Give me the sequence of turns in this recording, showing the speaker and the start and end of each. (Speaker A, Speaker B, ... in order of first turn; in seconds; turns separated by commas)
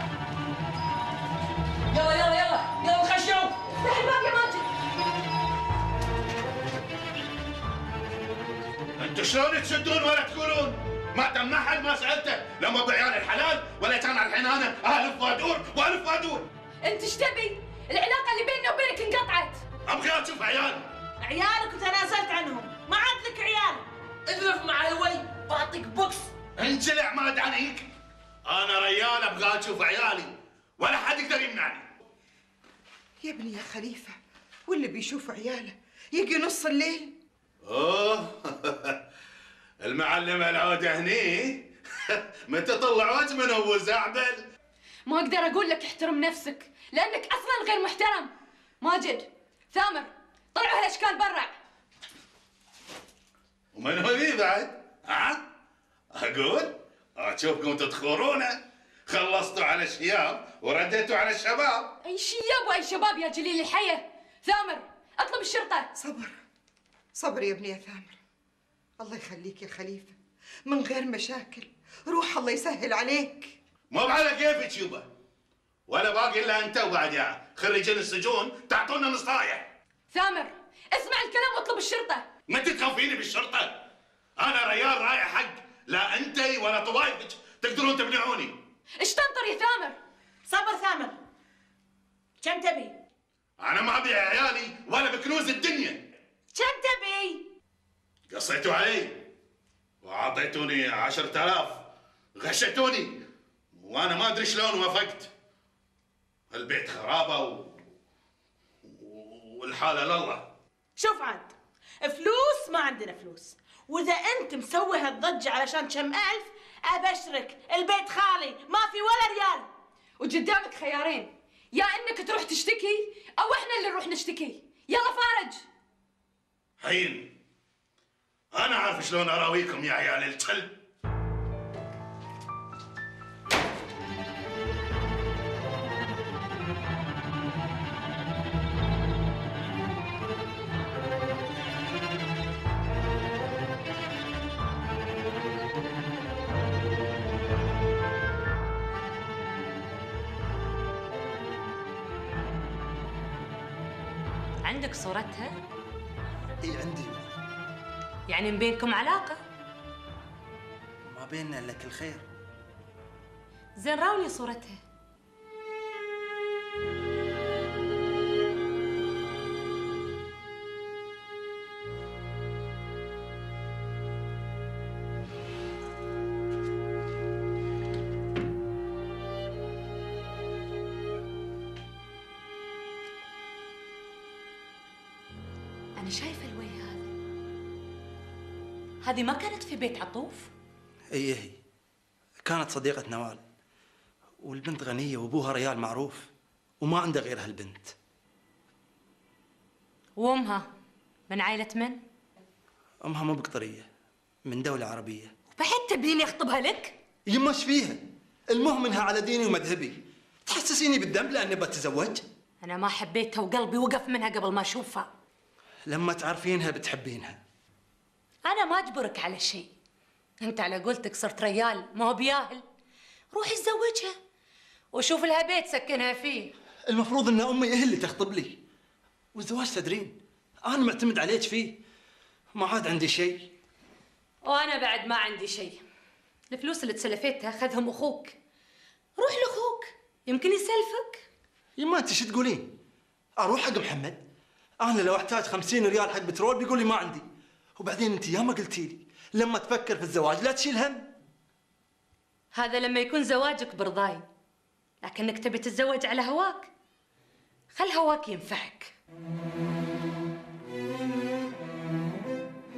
Speaker A: 1.9-3.6, Speaker B: 9.0-16.4, Speaker C: 16.8-19.6, Speaker B: 19.9-20.9, Speaker D: 21.2-23.8, Speaker A: 24.3-25.4, Speaker D: 25.5-26.3, Speaker B: 26.6-27.8, Speaker B: 28.4-31.9, Speaker E: 33.2-34.1, Speaker E: 34.7-37.1, Speaker B: 37.7-39.0, Speaker B: 39.8-44.4, Speaker C: 45.1-51.5, Speaker B: 53.7-55.4, Speaker B: 56.1-61.9, Speaker C: 62.0-65.9, Speaker E: 66.0-66.3, Speaker E: 67.2-68.2, Speaker E: 69.0-70.2, Speaker E: 70.7-73.6, Speaker B: 73.9-75.1, Speaker B: 75.9-79.7, Speaker C: 80.1-82.2, Speaker B: 82.5-83.8, Speaker B: 84.4-88.6, Speaker C: 89.0-90.0, Speaker D: 90.5-91.2, Speaker D: 92.4-92.9, Speaker B: 93.6-96.1, Speaker C: 96.5-97.4, Speaker B: 98.3-99.2, Speaker B: 100.0-101.8, Speaker B: 102.3-103.2, Speaker B: 103.8-105.3, Speaker B: 106.5-107.8, Speaker B: 108.8-110.5, Speaker D: 111.0-119.7, Speaker C: 120.2-125.6, Speaker B: 126.8-127.3, Speaker B: 128.5-130.8, Speaker F: 154.6-155.5, Speaker G: 156.6-157.3, Speaker F: 158.3-159.4, Speaker G: 161.1-162.2, Speaker F: 163.8-164.8, Speaker F: 186.0-187.1, Speaker F: 189.0-190.5, Speaker G: 191.1-191.6, Speaker G: 192.4-193.4, Speaker G: 194.4-197.9, Speaker F: 200.2-200.7, Speaker F: 201.3-202.0, Speaker G: 203.0-203.9, Speaker G: 204.4-205.3, Speaker F: 205.6-207.0, Speaker G: 207.3-212.2, Speaker F: 212.6-215.1, Speaker G: 215.9-217.4, Speaker F: 218.4-219.7, Speaker F: 220.4-222.6, Speaker F: 223.3-224.1, Speaker F: 224.9-226.5, Speaker G: 226.9-228.6, Speaker G: 229.3-231.8, Speaker G: 232.5-233.5, Speaker F: 234.4-235.8, Speaker F: 236.5-238.3, Speaker F: 239.2-241.2, Speaker G: 241.8-242.8, Speaker G: 243.4-244.2, Speaker G: 244.8-247.3, Speaker G: 247.8-251.1, Speaker F: 252.5-254.2, Speaker F: 255.0-256.7, Speaker F: 257.7-258.9